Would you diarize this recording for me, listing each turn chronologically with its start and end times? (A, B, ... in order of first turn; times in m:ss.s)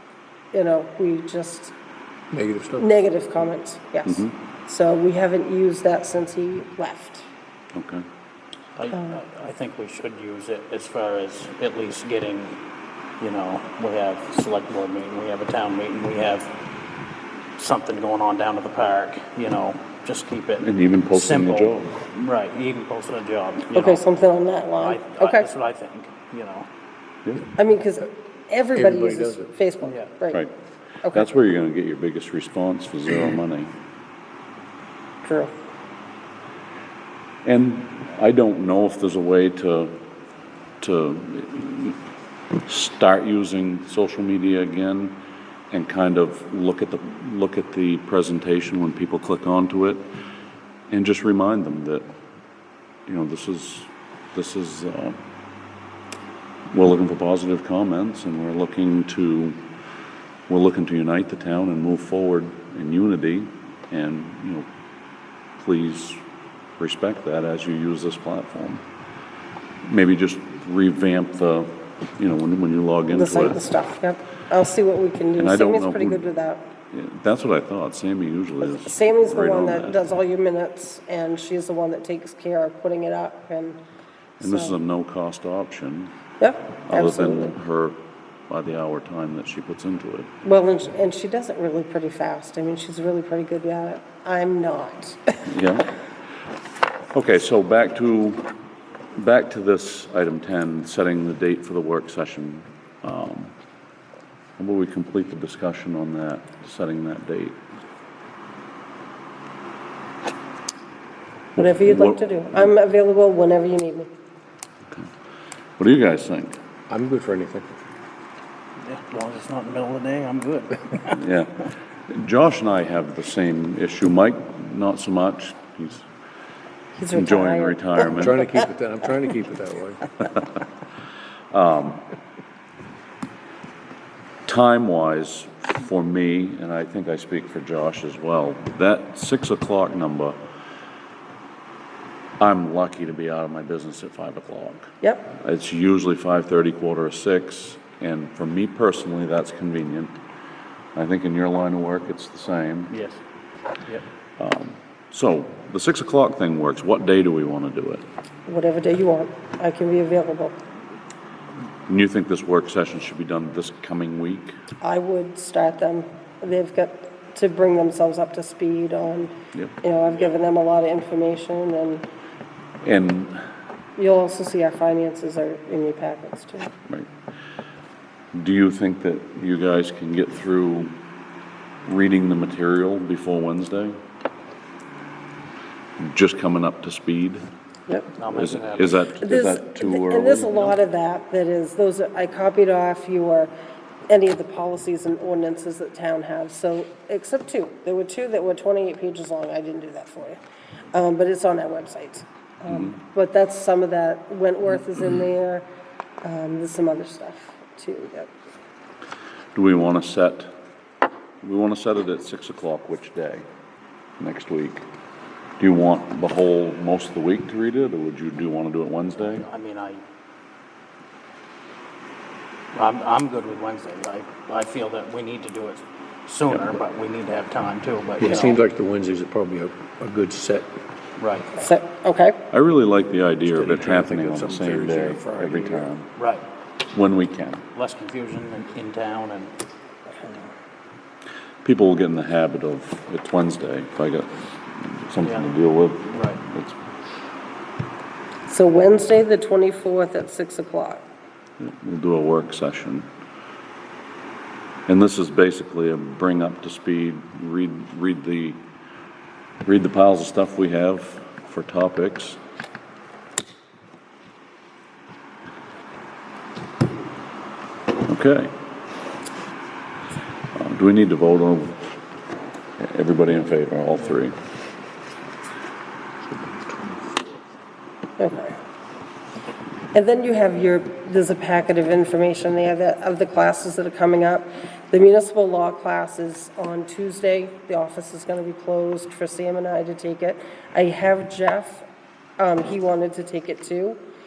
0:00.5-0:01.7 A
0:02.3-0:02.9 B
0:02.8-0:07.2 A
0:07.8-0:08.0 C
0:08.8-0:12.6 D
0:13.2-0:16.6 D
0:17.6-0:24.0 D
0:20.6-0:22.0 C
0:23.7-0:25.5 A
0:24.8-0:26.7 D
0:27.6-0:30.4 A
0:28.8-0:29.5 B
0:31.0-0:31.3 A
0:31.1-0:33.7 C
0:35.2-0:35.5 A
0:37.4-0:40.0 C
0:40.8-0:42.0 C
0:42.6-0:45.2 C
0:45.7-0:50.0 C
0:50.9-0:52.1 C
0:53.1-0:55.2 C
0:56.7-0:59.6 C
1:00.5-1:04.7 C
1:05.6-1:06.2 C
1:06.8-1:08.8 C
1:09.8-1:13.6 C
1:13.1-1:16.6 A
1:15.4-1:16.3 C
1:16.9-1:20.1 C
1:18.6-1:23.8 A
1:24.4-1:26.1 C
1:24.4-1:24.8 A
1:26.4-1:27.5 A
1:26.8-1:28.0 C
1:28.5-1:30.3 C
1:30.4-1:35.5 A
1:35.5-1:35.9 C
1:37.1-1:38.5 C
1:39.2-1:43.5 C
1:44.6-1:47.6 C
1:51.6-1:52.7 C
1:51.6-1:54.1 A
1:55.8-1:56.6 C
1:56.9-1:57.8 B
1:58.8-2:01.2 D
2:01.2-2:06.1 C
2:07.0-2:08.3 A
2:07.1-2:08.4 C
2:08.2-2:10.3 B
2:11.5-2:12.0 C
2:14.5-2:20.4 C
2:22.4-2:30.2 C
2:31.0-2:32.9 C
2:32.9-2:33.2 D
2:34.4-2:38.0 C
2:38.5-2:40.6 A
2:41.9-2:44.6 C
2:44.8-2:52.1 A
2:52.8-2:53.4 C
2:54.0-2:56.7 A
2:58.3-3:01.0 C
3:01.8-3:04.0 C
3:06.0-3:07.4 C
3:08.2-3:09.0 D
3:08.3-3:10.8 C
3:09.2-3:13.5 A
3:14.1-3:20.4 A
3:20.9-3:25.6 A
3:26.2-3:28.3 A
3:29.6-3:30.5 C
3:31.4-3:33.5 C
3:34.2-3:34.8 C
3:35.6-3:39.5 C
3:39.4-3:40.0 D
3:42.7-3:48.6 D
3:48.2-3:50.7 B
3:51.2-3:51.5 D
3:51.6-3:52.4 A
3:52.5-3:56.1 C
3:53.5-3:55.9 B
3:56.2-3:56.4 D
3:56.9-3:57.6 C
3:57.8-3:59.5 D
4:01.6-4:06.8 C
4:05.2-4:05.5 D
4:06.1-4:06.4 D
4:08.5-4:11.0 A
4:11.6-4:13.1 C
4:14.9-4:18.6 C
4:19.6-4:22.4 C
4:28.0-4:28.5 C
4:30.6-4:31.8 C
4:32.8-4:34.4 C
4:38.2-4:38.6 A
4:39.9-4:51.9 A
4:52.4-4:54.0 A